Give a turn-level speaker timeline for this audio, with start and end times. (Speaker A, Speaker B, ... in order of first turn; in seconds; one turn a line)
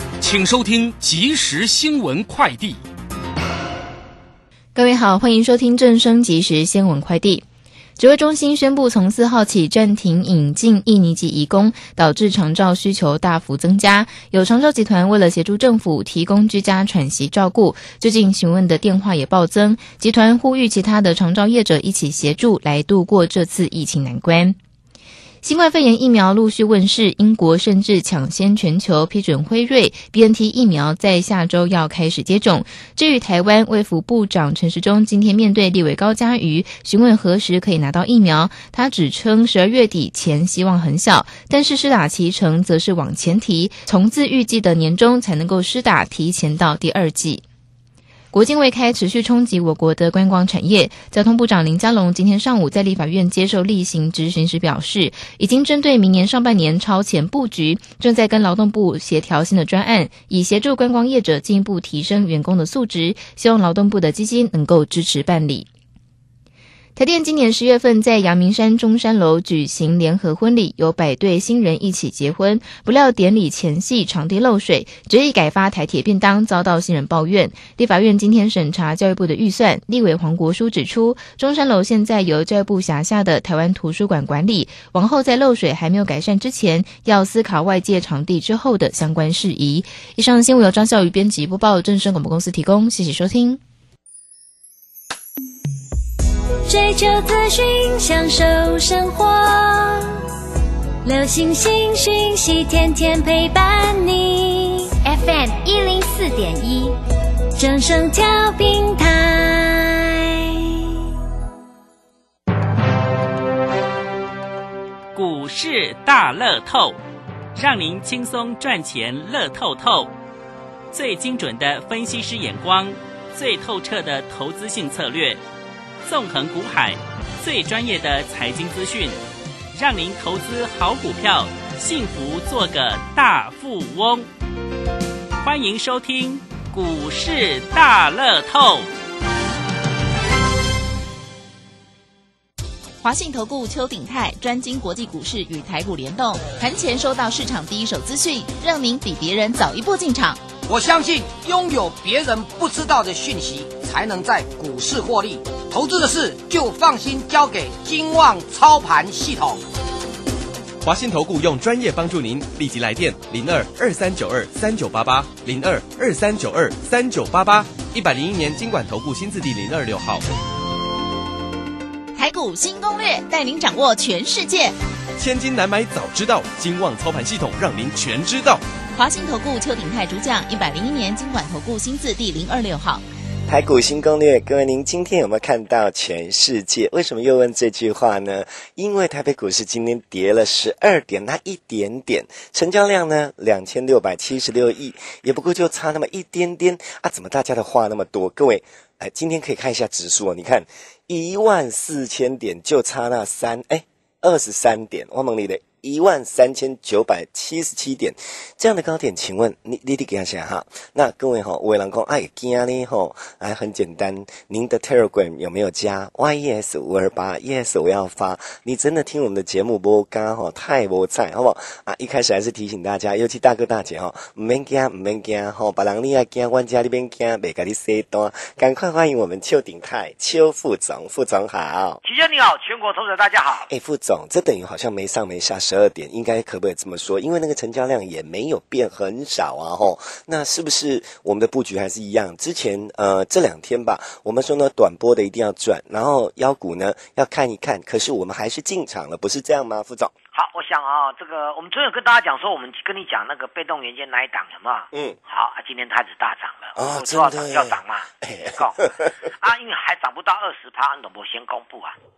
Speaker A: 0.2-2.8
Speaker B: 4.7-7.4
Speaker B: 8.0-24.6
Speaker B: 25.4-47.4
Speaker B: 48.3-65.7
Speaker B: 67.0-93.6
Speaker C: 96.7-100.3
Speaker C: 101.0-107.0
Speaker C: 107.5-111.0
Speaker D: 115.1-117.0
Speaker D: 117.5-120.1
Speaker D: 120.9-125.4
Speaker D: 126.0-129.2
Speaker D: 129.7-134.3
Speaker D: 135.4-138.9
Speaker E: 143.0-150.4
Speaker F: 150.7-159.6
Speaker G: 160.8-170.2
Speaker E: 172.1-174.7
Speaker G: 175.2-178.6
Speaker E: 178.9-183.0
Speaker H: 183.5-232.0
Speaker I: 232.0-233.7
Speaker H: 233.7-250.1
Speaker I: 250.3-262.0
Speaker H: 254.9-255.2
Speaker H: 256.8-259.1